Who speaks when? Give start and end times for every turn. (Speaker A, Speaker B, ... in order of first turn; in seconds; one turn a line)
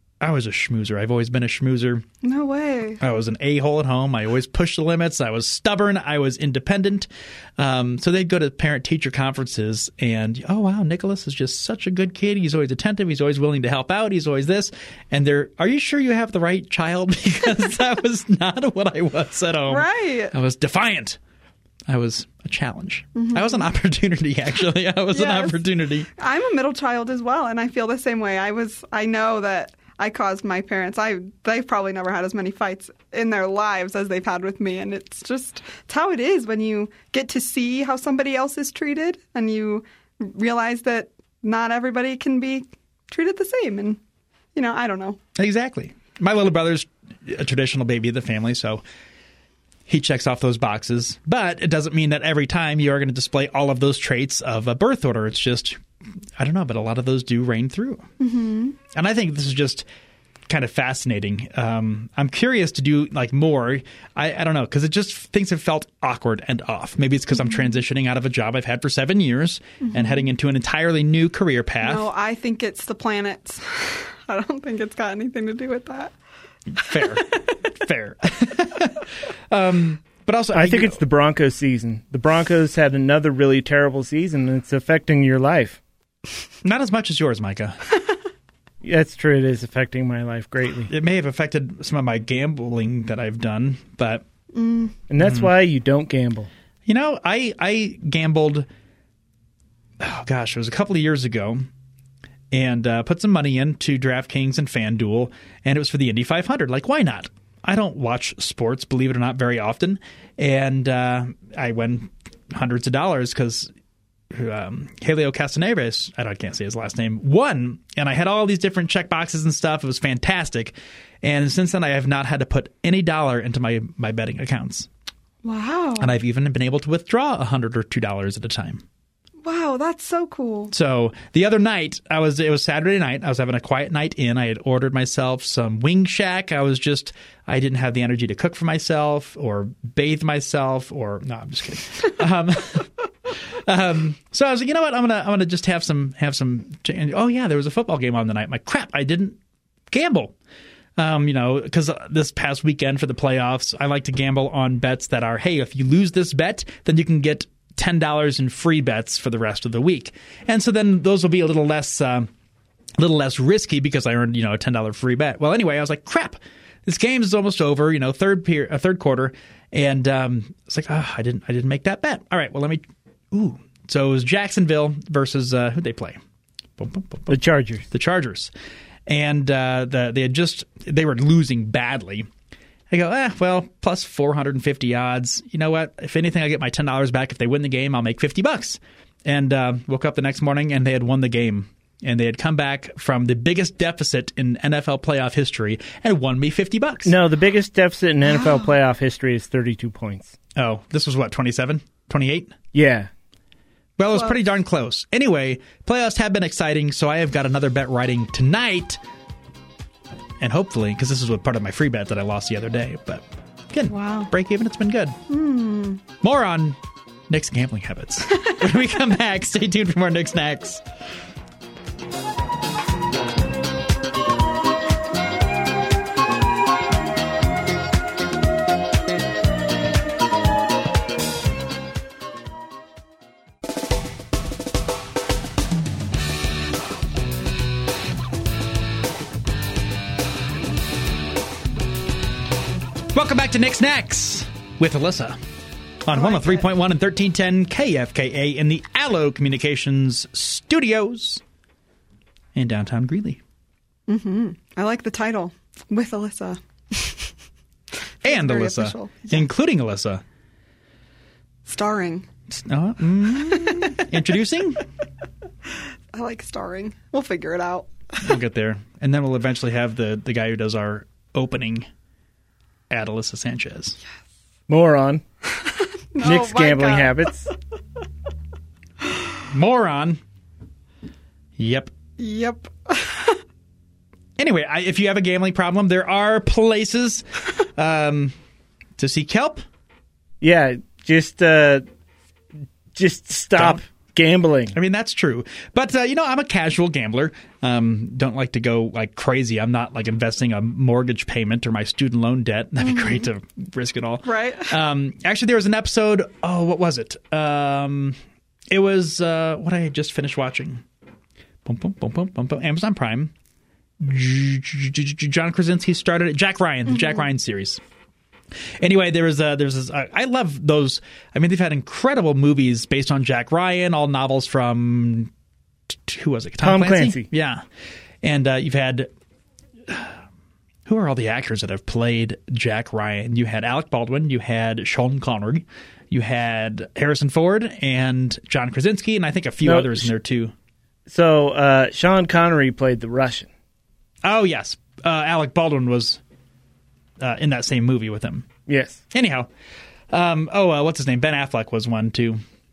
Speaker A: 0.2-2.0
Speaker B: 2.2-3.0
Speaker A: 3.0-21.2
Speaker B: 19.7-20.3
Speaker A: 21.9-26.1
Speaker B: 23.1-23.6
Speaker B: 25.1-25.6
Speaker B: 26.2-44.0
Speaker B: 44.5-45.2
Speaker A: 45.3-48.8
Speaker A: 49.9-55.8
Speaker A: 56.4-58.0
Speaker B: 58.2-58.8
Speaker A: 58.9-59.9
Speaker A: 60.5-72.1
Speaker B: 71.8-76.1
Speaker A: 76.7-81.0
Speaker B: 76.8-77.2
Speaker C: 80.5-85.8
Speaker A: 86.6-87.8
Speaker C: 88.8-90.9
Speaker A: 90.9-94.2
Speaker B: 94.5-94.9
Speaker C: 95.1-96.5
Speaker A: 95.2-95.5
Speaker A: 96.8-98.7
Speaker A: 100.0-101.7
Speaker A: 102.5-113.7
Speaker A: 114.3-124.9
Speaker B: 125.4-126.1
Speaker A: 126.0-128.8
Speaker B: 129.4-130.7
Speaker A: 130.7-149.4
Speaker A: 149.9-150.3
Speaker A: 151.0-162.3
Speaker A: 163.0-176.2
Speaker A: 176.8-177.4
Speaker C: 177.3-177.8
Speaker A: 177.9-178.5
Speaker A: 179.1-182.3
Speaker A: 182.9-197.1
Speaker C: 197.0-200.3
Speaker A: 200.6-202.6
Speaker C: 202.7-203.1
Speaker A: 204.0-209.0
Speaker A: 210.4-215.2
Speaker B: 213.9-214.3
Speaker B: 215.3-216.0
Speaker A: 216.2-216.8
Speaker A: 217.3-220.8
Speaker A: 243.1-245.4
Speaker A: 246.0-251.4
Speaker B: 246.1-246.7
Speaker A: 252.5-253.4
Speaker B: 254.1-257.3
Speaker A: 258.2-260.2
Speaker B: 258.2-259.5
Speaker B: 261.6-262.3
Speaker A: 262.5-264.8
Speaker B: 263.5-264.1
Speaker B: 266.1-267.9
Speaker A: 268.2-271.9
Speaker A: 272.9-274.0
Speaker C: 274.7-275.2
Speaker B: 275.5-277.3
Speaker C: 276.2-277.5
Speaker A: 279.5-280.2
Speaker A: 281.6-281.9
Speaker B: 282.2-283.4
Speaker A: 284.4-288.4
Speaker A: 289.0-289.6
Speaker C: 290.4-291.8
Speaker C: 292.9-294.7
Speaker A: 293.5-293.8
Speaker A: 294.7-308.2
Speaker B: 302.9-303.2
Speaker B: 304.2-304.7
Speaker A: 308.7-310.8
Speaker A: 311.6-313.3
Speaker A: 314.0-317.8
Speaker A: 318.8-325.3
Speaker A: 325.9-327.6
Speaker C: 326.6-327.2
Speaker A: 328.2-329.1
Speaker A: 329.9-330.2
Speaker A: 330.9-340.5
Speaker C: 339.6-340.1
Speaker C: 341.1-343.5
Speaker A: 344.2-346.2
Speaker A: 347.2-348.5
Speaker C: 348.7-349.0
Speaker A: 349.1-349.5
Speaker A: 350.1-352.4